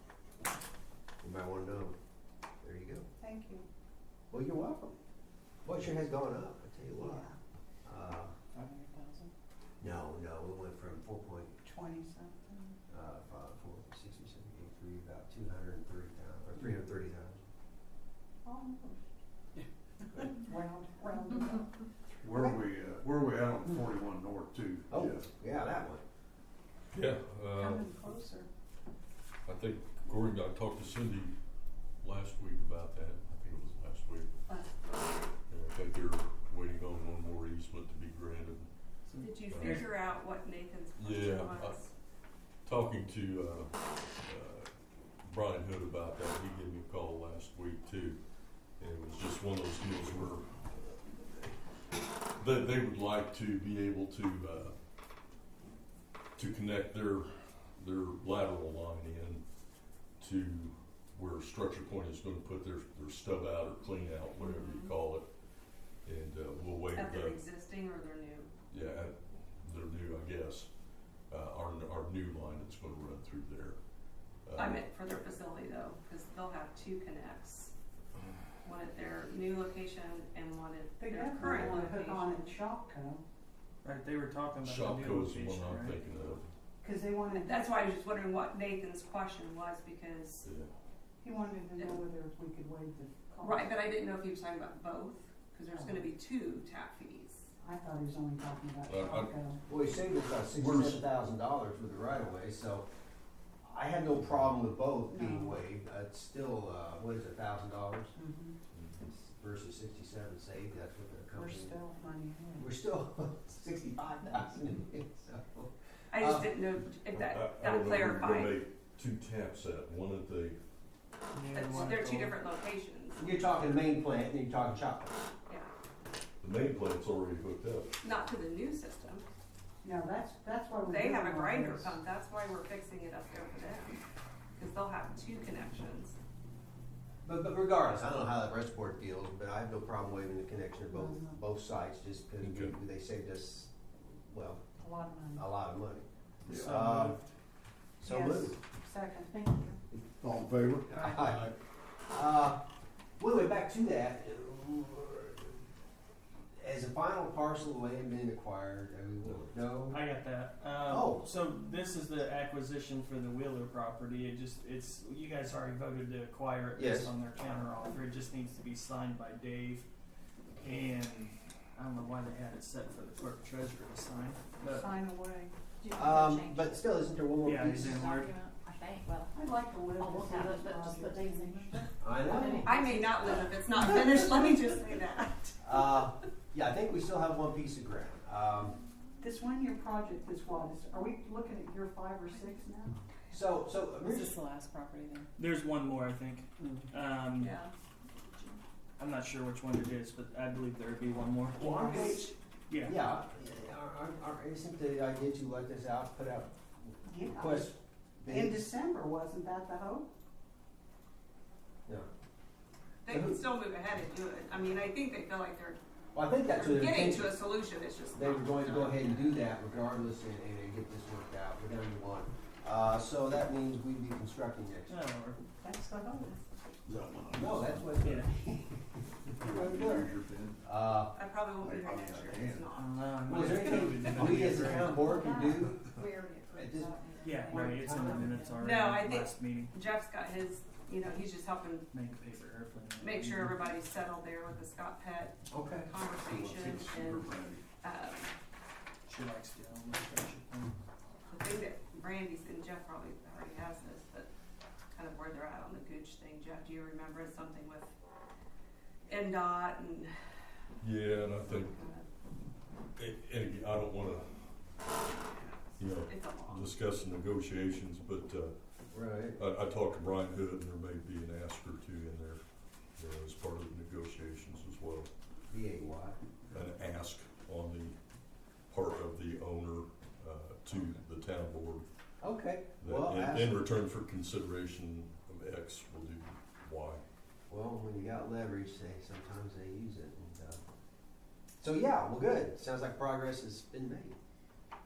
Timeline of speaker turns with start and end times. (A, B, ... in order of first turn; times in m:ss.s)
0:01.2-0:01.9 A
0:02.6-0:03.0 A
0:03.2-0:03.6 B
0:04.3-0:04.9 A
0:05.6-0:07.3 A
0:07.0-0:07.3 B
0:07.8-0:08.3 A
0:08.5-0:09.3 C
0:09.8-0:11.6 A
0:11.6-0:12.8 B
0:12.9-0:17.4 A
0:18.4-0:19.0 B
0:20.2-0:21.6 B
0:22.2-0:25.2 D
0:22.2-0:22.6 A
0:24.9-0:26.0 A
0:26.9-0:28.1 E
0:27.5-0:28.5 B
0:29.4-0:31.3 E
0:32.0-0:34.3 E
0:34.5-0:35.2 F
0:35.5-0:38.7 E
0:39.1-0:39.9 C
0:39.2-0:41.9 F
0:39.4-0:39.8 E
0:41.0-0:41.7 E
0:42.6-0:44.7 E
0:45.2-0:48.2 E
0:48.8-0:51.6 E
0:52.3-0:54.7 E
0:56.4-0:59.4 E
1:00.2-1:05.2 E
1:04.4-1:04.9 F
1:06.0-1:07.4 E
1:06.9-1:08.5 F
1:08.7-1:10.7 E
1:11.3-1:13.8 E
1:14.5-1:14.8 E
1:14.6-1:17.7 F
1:18.6-1:22.5 F
1:21.0-1:23.2 B
1:21.4-1:21.8 E
1:23.8-1:26.0 C
1:24.6-1:26.5 E
1:26.8-1:27.7 B
1:27.3-1:30.4 F
1:30.4-1:30.7 E
1:31.2-1:33.7 B
1:33.4-1:37.5 F
1:35.7-1:36.1 B
1:37.6-1:39.6 B
1:38.9-1:39.3 E
1:39.7-1:42.8 A
1:40.6-1:41.0 E
1:43.6-1:48.1 A
1:45.1-1:45.6 B
1:48.1-1:48.6 B
1:48.7-1:49.0 E
1:49.0-1:51.8 A
1:51.3-1:52.7 B
1:52.6-1:56.5 A
1:56.1-1:58.6 F
1:57.1-2:00.6 E
2:01.3-2:02.2 C
2:01.5-2:03.3 F
2:01.8-2:02.2 A
2:03.2-2:05.3 A
2:06.4-2:07.9 E
2:08.0-2:09.2 F
2:09.8-2:11.9 B
2:10.8-2:14.0 F
2:14.6-2:16.2 F
2:17.2-2:24.6 A
2:20.9-2:21.4 B
2:22.4-2:22.8 E
2:24.8-2:25.4 B
2:25.4-2:27.2 A
2:26.5-2:27.2 D
2:26.5-2:27.2 C
2:28.0-2:28.6 A
2:28.0-2:29.5 B
2:29.9-2:31.5 D
2:30.9-2:31.5 A
2:32.1-2:32.6 A
2:33.2-2:35.6 A
2:36.6-2:40.0 A
2:39.9-2:49.8 C
2:40.8-2:41.3 A
2:46.7-2:47.1 A
2:50.6-2:54.9 C
2:54.6-2:55.5 B
2:55.8-2:56.8 G
2:55.9-2:58.0 A
2:57.4-2:58.4 C
2:57.8-2:59.3 G
2:59.3-3:01.9 B
3:00.0-3:03.4 G
3:02.0-3:03.4 A
3:02.6-3:06.0 F
3:05.6-3:08.8 A
3:09.2-3:13.0 B
3:13.3-3:14.4 A
3:14.1-3:17.6 C
3:17.4-3:17.7 F
3:19.0-3:23.0 C
3:21.6-3:28.6 A
3:21.6-3:22.1 B
3:27.0-3:27.7 B
3:28.3-3:30.1 B
3:33.0-3:35.8 F
3:33.1-3:33.4 A
3:36.1-3:37.3 A
3:36.5-3:39.4 F
3:38.1-3:45.0 A
3:44.9-3:45.4 C
3:45.6-3:46.4 B
3:46.8-3:48.2 D
3:47.3-3:51.2 A
3:48.0-3:48.4 C
3:49.4-3:50.6 D
3:51.1-3:53.0 F
3:51.6-3:52.6 D
3:52.7-3:55.0 C
3:53.2-3:58.3 A
3:54.9-3:58.6 G
3:55.2-3:55.6 B
3:57.2-3:59.7 C
3:58.6-4:01.9 F
4:01.9-4:03.7 C
4:03.0-4:08.3 F
4:05.5-4:05.9 A
4:06.2-4:07.6 D
4:09.1-4:10.8 C
4:11.3-4:14.3 F
4:14.9-4:17.9 F
4:19.0-4:20.1 F
4:20.8-4:21.7 E
4:21.3-4:22.0 F
4:23.0-4:24.5 E
4:25.8-4:28.5 E
4:25.8-4:26.7 F
4:28.9-4:29.4 A
4:29.4-4:32.4 E
4:33.0-4:35.1 E
4:35.5-4:36.2 A
4:36.5-4:38.0 E
4:38.7-4:41.8 E
4:42.2-4:43.6 A
4:42.8-4:47.0 E
4:47.5-4:50.6 A
4:51.6-4:54.2 A